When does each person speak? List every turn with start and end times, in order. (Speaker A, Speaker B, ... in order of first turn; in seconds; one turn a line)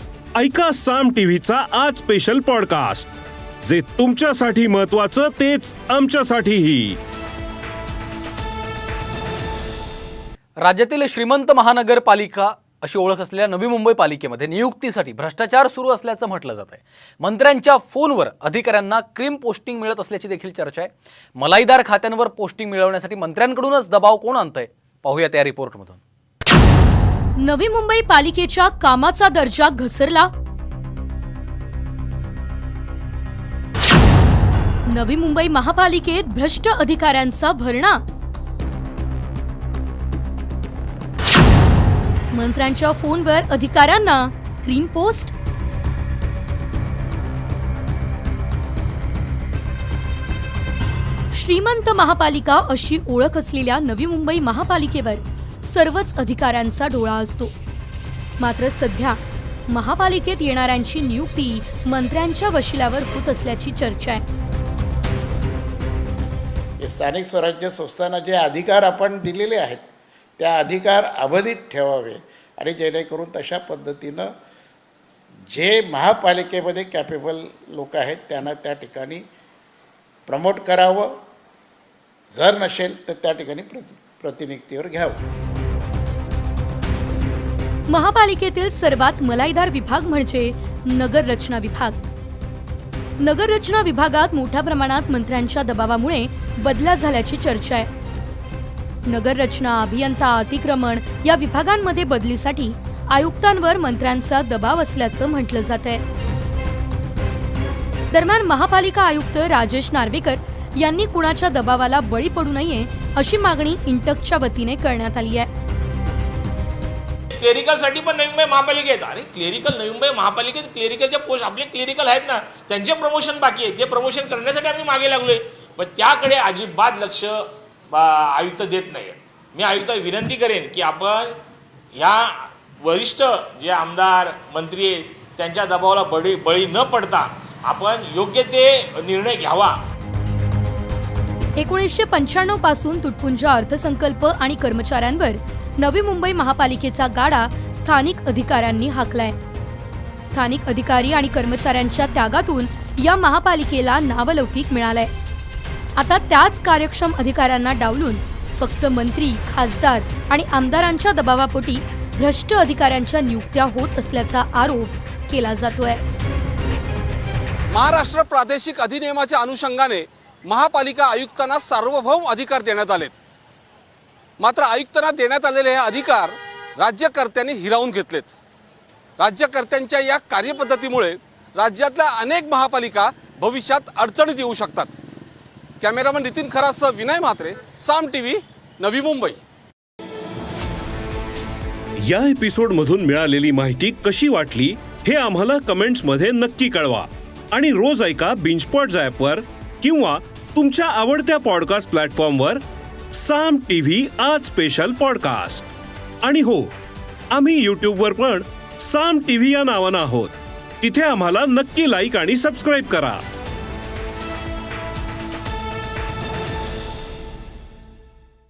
Speaker A: 0.4-7.0
Speaker B: 10.6-26.0
Speaker C: 27.4-30.3
Speaker C: 34.9-38.0
Speaker C: 42.3-45.3
Speaker C: 51.3-57.5
Speaker C: 58.4-64.2
Speaker D: 66.8-69.8
Speaker D: 70.4-74.3
Speaker D: 75.5-79.2
Speaker D: 80.3-81.1
Speaker D: 82.3-85.2
Speaker C: 87.9-92.0
Speaker C: 93.2-97.9
Speaker C: 99.1-106.0
Speaker C: 108.1-115.5
Speaker E: 117.3-131.4
Speaker E: 131.9-139.8
Speaker C: 141.6-149.4
Speaker C: 150.2-155.1
Speaker C: 156.0-166.0
Speaker F: 167.7-173.2
Speaker F: 174.4-176.3
Speaker F: 176.8-178.4
Speaker F: 179.2-185.0
Speaker F: 185.8-189.4
Speaker A: 192.0-202.6
Speaker A: 203.1-205.7
Speaker A: 206.2-206.7
Speaker A: 207.3-213.2